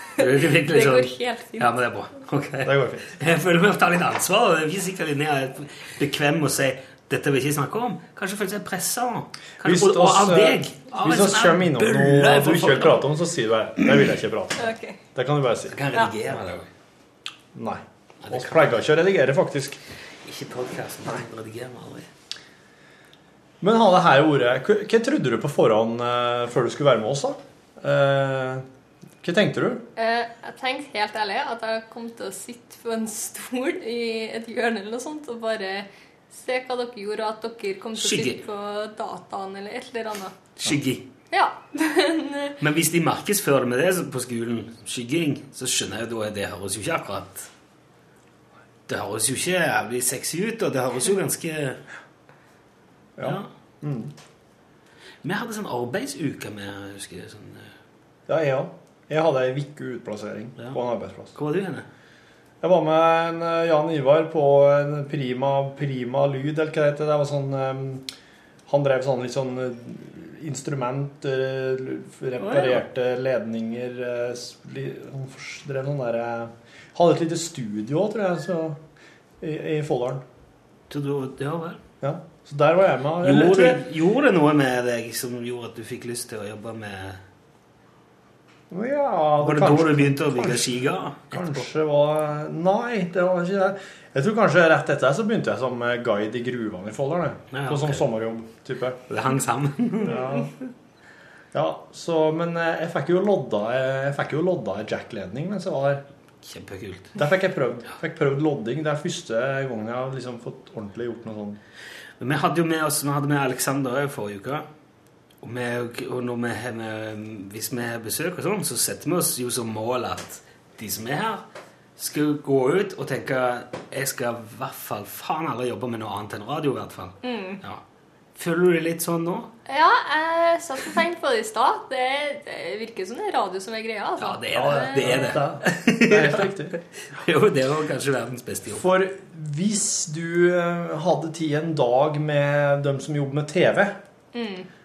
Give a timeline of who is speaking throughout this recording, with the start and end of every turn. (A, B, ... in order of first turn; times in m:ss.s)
0:00.2-0:13.1 A
0:00.2-0:01.7 B
0:02.6-0:03.1 C
0:09.6-0:14.6 C
0:14.6-0:15.0 B
0:15.2-0:15.8 C
0:15.7-0:16.7 A
0:17.6-0:19.8 C
0:18.2-0:18.7 A
0:20.2-0:22.1 A
0:23.6-0:28.6 C
0:29.2-0:29.8 C
0:30.0-0:40.3 B
0:38.0-0:38.4 A
0:40.6-0:41.1 A
0:41.3-0:42.6 B
0:42.6-0:47.5 A
0:48.9-0:51.8 A
0:53.2-0:54.1 C
0:53.2-0:53.5 A
0:55.2-0:57.7 A
0:58.3-1:01.4 C
1:01.3-1:01.8 A
1:02.6-1:08.1 C
1:08.7-1:18.8 C
1:12.4-1:12.8 A
1:19.4-1:20.2 C
1:20.9-1:21.8 A
1:22.0-1:23.8 C
1:23.2-1:27.2 A
1:28.7-1:39.0 C
1:29.4-1:31.6 A
1:37.5-1:38.0 A
1:39.1-1:40.2 A
1:40.0-1:40.5 C
1:41.5-1:46.0 C
1:46.4-1:47.2 A
1:47.2-1:51.6 C
1:52.2-1:54.7 A
1:55.4-2:01.4 A
2:02.0-2:07.8 A
2:07.2-2:07.6 B
2:08.4-2:09.5 A
2:09.7-2:15.3 B
2:14.2-2:18.9 A
2:14.6-2:16.8 C
2:18.7-2:24.0 C
2:24.3-2:24.7 B